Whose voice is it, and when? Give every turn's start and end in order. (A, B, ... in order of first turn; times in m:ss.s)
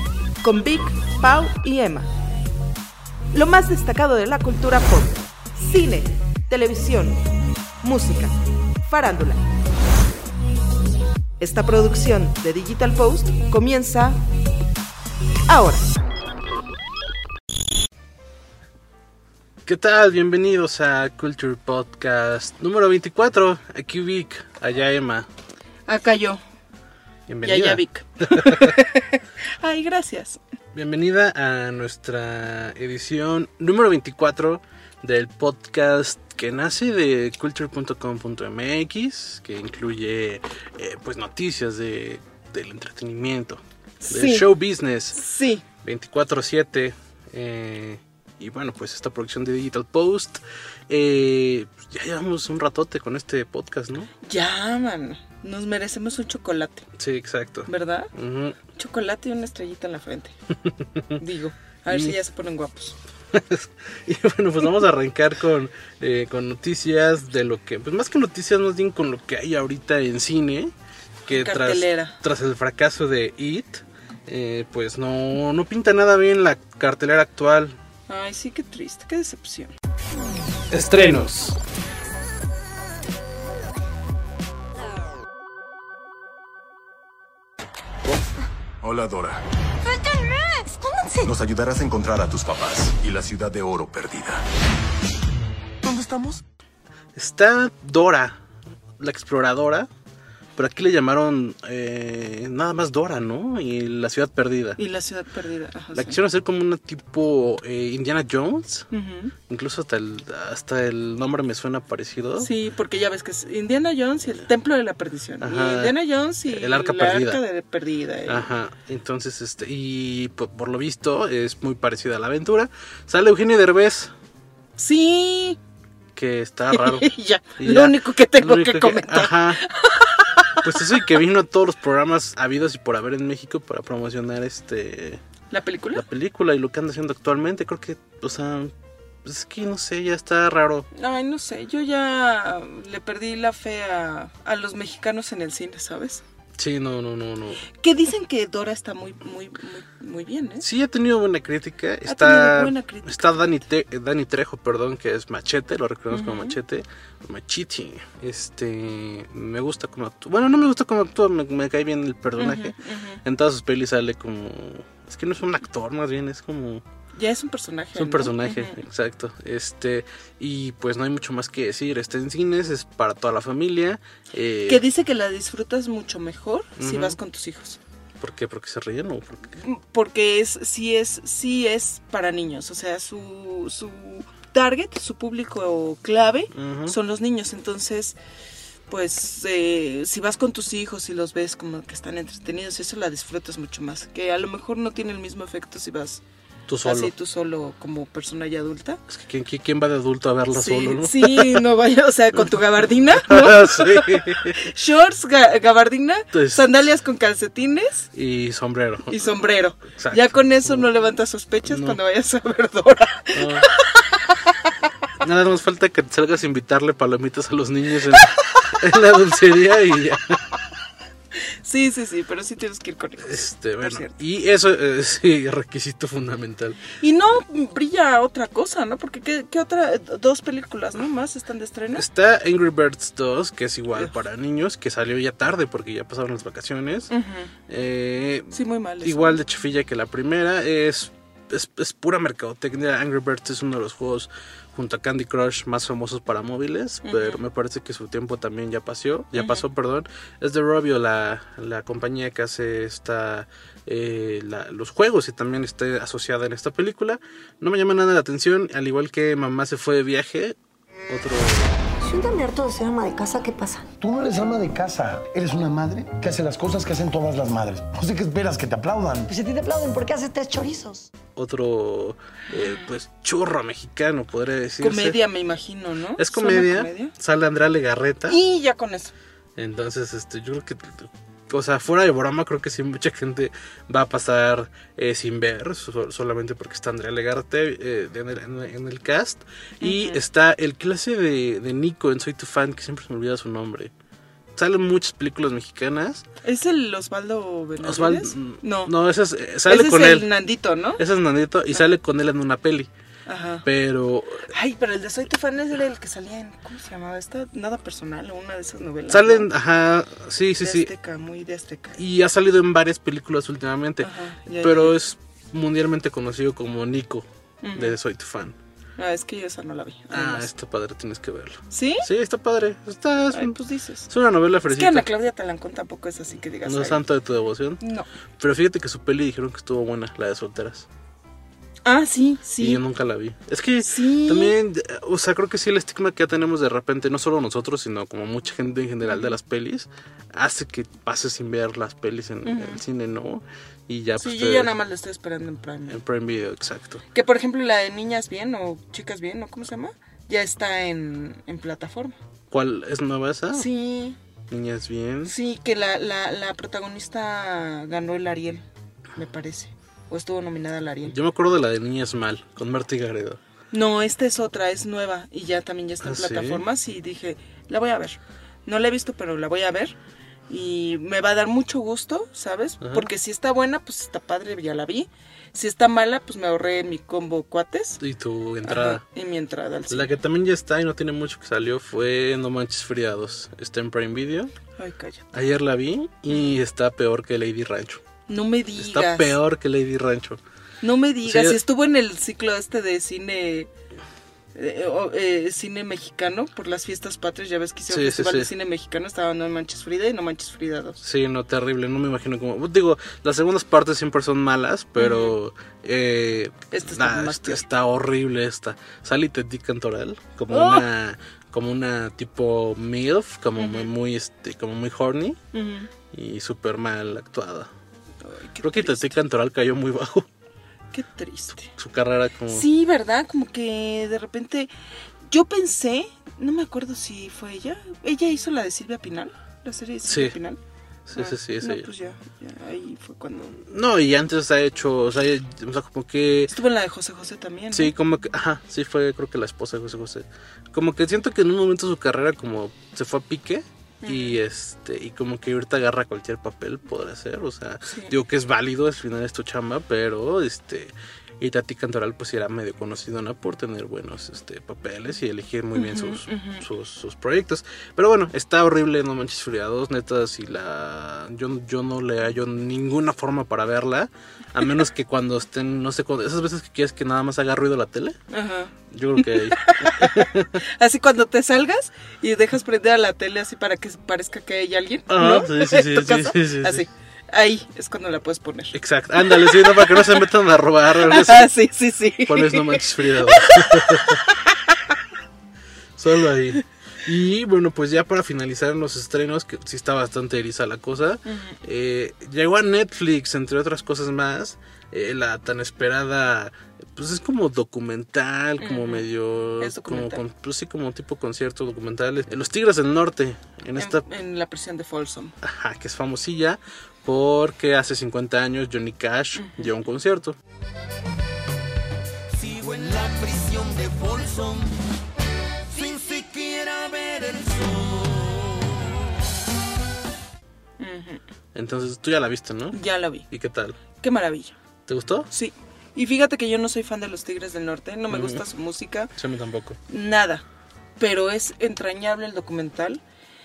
0:00.4-0:02.1 A
0:03.3-0:07.2 A
0:07.8-0:09.4 A
0:11.4-0:14.2 A
0:15.5-0:15.9 A
0:19.6-0:25.3 B
0:25.9-0:26.4 A
0:27.3-0:27.8 B
0:27.4-0:30.4 A
0:28.3-0:28.7 B
0:30.7-0:45.2 B
0:44.0-0:44.5 A
0:45.1-0:45.6 A
0:45.8-0:54.1 B
0:54.2-0:56.9 A
0:57.0-0:58.6 B
0:57.7-0:58.1 A
0:58.7-1:00.4 A
1:01.2-1:03.0 A
1:01.9-1:02.2 B
1:03.3-1:10.7 B
1:11.3-1:17.8 B
1:11.3-1:12.2 A
1:18.1-1:19.7 A
1:20.7-1:21.6 B
1:28.8-1:29.4 C
1:29.8-1:31.3 D
1:31.2-1:34.4 C
1:35.9-1:36.4 C
1:37.2-1:38.4 B
1:39.0-1:39.9 B
1:40.6-1:44.8 B
1:44.8-1:46.2 A
1:45.9-1:48.9 B
1:48.9-1:49.4 A
1:49.5-1:52.5 B
1:52.4-1:58.5 A
1:55.4-1:56.0 B
1:56.5-1:57.4 B
1:58.3-2:04.1 B
2:04.8-2:05.6 A
2:06.2-2:09.6 B
2:06.7-2:10.7 A
2:10.6-2:15.2 B
2:15.5-2:16.0 A
2:15.9-2:18.7 B
2:19.2-2:20.9 B
2:20.9-2:26.2 A
2:26.6-2:27.6 B
2:27.8-2:30.7 A
2:30.6-2:46.8 B
2:32.1-2:33.4 A
2:36.1-2:36.6 A
2:42.4-2:43.2 A
2:47.1-2:48.8 A
2:48.0-2:54.8 B
2:54.7-2:57.8 A
2:56.8-2:57.2 B
2:58.2-2:59.5 B
2:59.6-3:08.2 A
3:06.5-3:07.0 B
3:08.9-3:16.2 A
3:16.7-3:17.1 B
3:16.8-3:19.0 A
3:19.1-3:21.6 B
3:20.5-3:28.1 A
3:23.3-3:24.6 B
3:26.3-3:26.6 B
3:28.1-3:29.2 B
3:29.1-3:34.4 A
3:29.9-3:30.9 B
3:31.7-3:32.0 B
3:33.4-3:33.7 B
3:35.2-3:40.4 B
3:41.6-3:44.2 A
3:43.2-3:46.8 B
3:46.9-3:52.0 A
3:52.0-3:57.1 B
3:57.1-3:57.5 A
3:57.7-4:20.6 B
3:58.5-3:59.4 A
4:07.0-4:07.4 A
4:09.4-4:09.6 A
4:21.1-4:21.8 B
4:22.0-4:23.9 D
4:24.0-4:29.3 E
4:29.3-4:31.1 D
4:31.4-4:35.2 B
4:32.5-4:32.8 A
4:34.8-4:37.1 A
4:36.2-4:38.4 B
4:38.3-4:39.1 A
4:39.6-4:53.9 B
4:49.8-4:50.2 A
4:54.6-4:56.2 B
4:56.4-4:58.9 A
4:57.8-5:00.3 B
4:59.7-5:01.0 A
5:01.0-5:02.9 B
5:03.3-5:03.6 A
5:03.6-5:04.5 B
5:04.5-5:09.5 A
5:09.1-5:10.9 B
5:10.6-5:12.0 A
5:12.0-5:18.6 B
5:14.0-5:15.0 A
5:17.6-5:18.0 A
5:19.0-5:20.5 A
5:20.1-5:23.6 B
5:21.7-5:22.1 A
5:23.3-5:24.1 A
5:24.1-5:25.1 B
5:24.7-5:27.0 A
5:26.6-5:27.8 B
5:27.8-5:28.1 A
5:28.4-5:30.9 B
5:31.9-5:32.8 A
5:32.6-5:44.7 B
5:33.8-5:34.6 A
5:39.0-5:39.3 A
5:42.4-5:42.8 A
5:44.2-5:46.0 A
5:45.9-5:47.0 B
5:47.1-5:52.2 A
5:52.5-5:53.7 B
5:53.5-5:54.2 A
5:54.5-5:55.4 B
5:55.3-6:01.2 A
6:01.0-6:03.4 B
6:03.7-6:10.0 A
6:06.0-6:06.6 B
6:10.5-6:18.0 A
6:12.8-6:13.1 B
6:18.0-6:19.0 B
6:18.6-6:20.1 A
6:19.9-6:24.5 B
6:24.8-6:25.2 A
6:25.3-6:28.0 B
6:28.3-6:29.4 A
6:28.8-6:30.4 B
6:30.8-6:33.7 A
6:31.2-6:31.6 B
6:34.6-6:41.0 A
6:37.9-6:38.5 B
6:41.0-6:55.4 B
6:45.0-6:45.4 A
6:46.7-6:47.6 A
6:50.5-6:50.8 A
6:53.6-6:53.9 A
6:55.5-6:55.9 A
6:56.1-6:57.7 B
6:58.2-6:59.2 A
6:58.6-7:00.3 B
7:00.9-7:01.7 A
7:01.7-7:02.7 B
7:02.5-7:04.7 A
7:05.3-7:10.6 A
7:10.0-7:10.4 B
7:11.1-7:11.9 B
7:11.2-7:13.6 A
7:13.6-7:16.5 B
7:16.5-7:17.9 A
7:17.7-7:48.2 B
7:24.0-7:24.4 A
7:27.9-7:28.1 A
7:35.7-7:36.6 A
7:48.3-8:00.2 A
7:48.9-7:50.6 B
7:55.1-7:56.8 B
7:58.7-8:01.5 B
8:01.0-8:04.9 A
8:02.3-8:04.2 B
8:06.0-8:24.0 B
8:11.3-8:11.6 A
8:18.6-8:19.1 A
8:19.6-8:20.2 A
8:23.8-8:25.4 A
8:25.4-8:30.4 B
8:29.4-8:29.7 A
8:32.4-8:34.7 F
8:35.7-8:38.5 F
8:40.8-8:41.2 A
8:41.6-8:43.8 B
8:42.7-8:43.3 A
8:44.0-8:44.6 A
8:44.9-8:45.3 B
8:45.3-8:49.1 A
8:48.1-8:48.4 B
8:49.2-8:49.8 B
8:49.9-8:50.4 A
8:51.0-8:53.0 A